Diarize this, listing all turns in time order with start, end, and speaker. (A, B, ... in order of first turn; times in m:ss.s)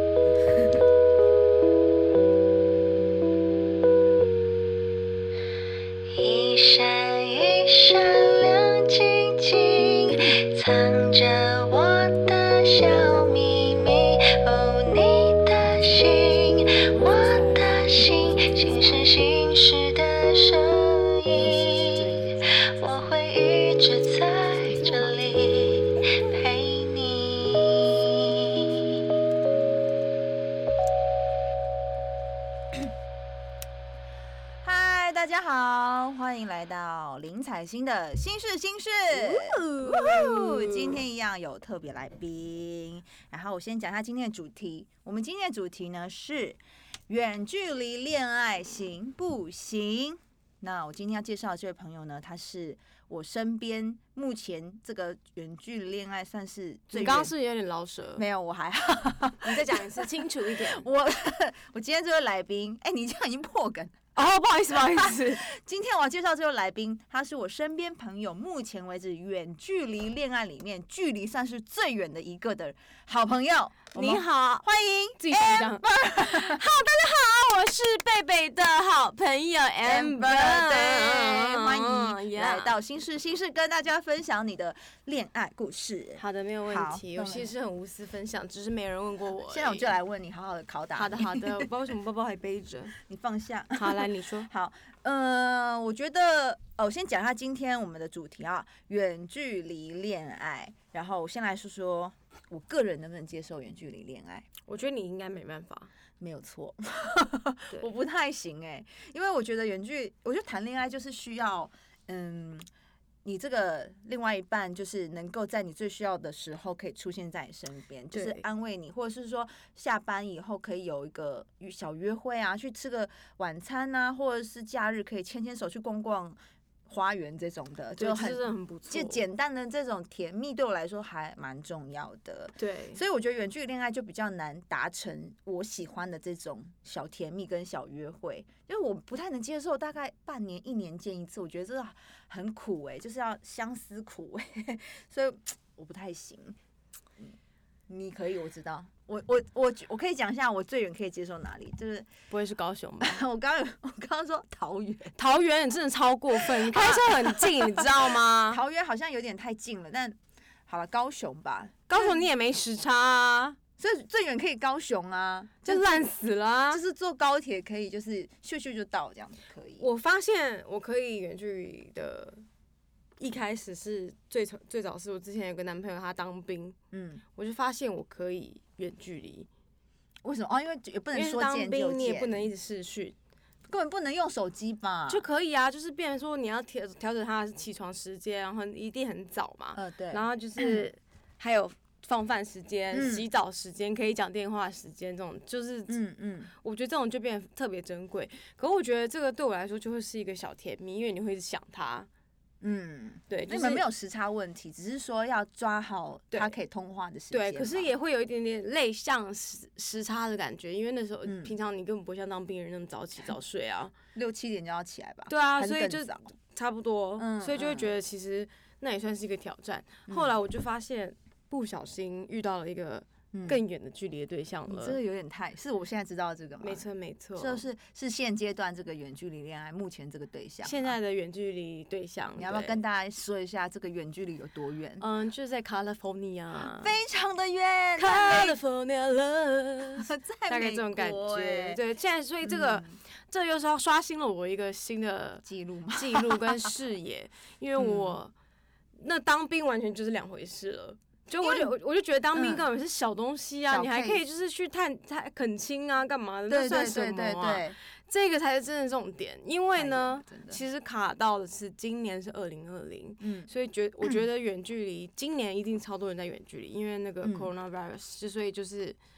0:00.2-0:00.8 A
0:06.2-0:28.6 B
0:15.9-0:19.1 C
0:21.3-0:22.3 C
0:24.8-0:25.1 C
0:24.8-0:25.4 A
0:34.6-0:57.3 A
0:39.1-0:41.0 C
0:56.9-0:58.2 C
0:58.2-1:04.0 A
0:59.4-1:00.8 C
1:04.2-1:05.4 C
1:04.9-1:16.6 A
1:13.9-1:14.6 C
1:15.2-1:22.7 C
1:19.8-1:27.5 A
1:26.2-1:30.0 C
1:29.5-1:31.7 A
1:31.0-1:33.0 C
1:33.0-1:44.5 A
1:33.8-1:34.5 C
1:44.7-1:45.9 C
1:46.2-1:52.7 A
1:53.2-2:06.4 A
1:58.1-1:58.4 C
2:06.9-2:26.6 A
2:08.0-2:09.2 C
2:12.6-2:13.0 C
2:27.9-2:32.1 A
2:32.3-2:33.2 C
2:33.0-2:35.2 A
2:35.2-2:38.6 C
2:36.4-2:37.9 A
2:38.5-2:42.2 A
2:41.9-2:43.6 C
2:43.8-2:46.1 A
2:45.6-2:46.8 C
2:46.7-2:49.9 A
2:49.8-2:52.4 C
2:53.2-2:56.8 C
2:56.9-2:57.2 A
2:57.4-2:59.5 C
3:00.2-3:02.5 A
3:01.1-3:03.2 C
3:03.7-3:05.3 A
3:05.1-3:16.0 C
3:09.8-3:10.9 A
3:12.9-3:13.2 A
3:15.9-3:16.5 A
3:16.6-3:22.1 C
3:22.6-3:27.9 A
3:23.3-3:23.9 C
3:27.3-3:33.9 C
3:31.2-3:31.5 A
3:34.2-3:36.3 A
3:35.3-3:45.0 C
3:37.2-3:37.9 A
3:40.1-3:40.4 A
3:43.3-3:43.6 A
3:44.7-3:51.0 A
3:46.6-3:47.6 C
3:50.6-3:52.8 C
3:52.4-3:55.1 A
3:55.0-3:56.9 C
3:56.6-3:58.6 A
3:58.0-4:08.3 C
4:00.0-4:01.8 A
4:02.4-4:03.0 A
4:05.4-4:06.7 A
4:07.8-4:08.2 A
4:09.0-4:29.0 C
4:11.4-4:11.7 A
4:12.4-4:12.6 A
4:13.7-4:14.2 A
4:16.5-4:17.8 A
4:19.8-4:20.6 A
4:23.2-4:23.5 A
4:27.2-4:27.5 A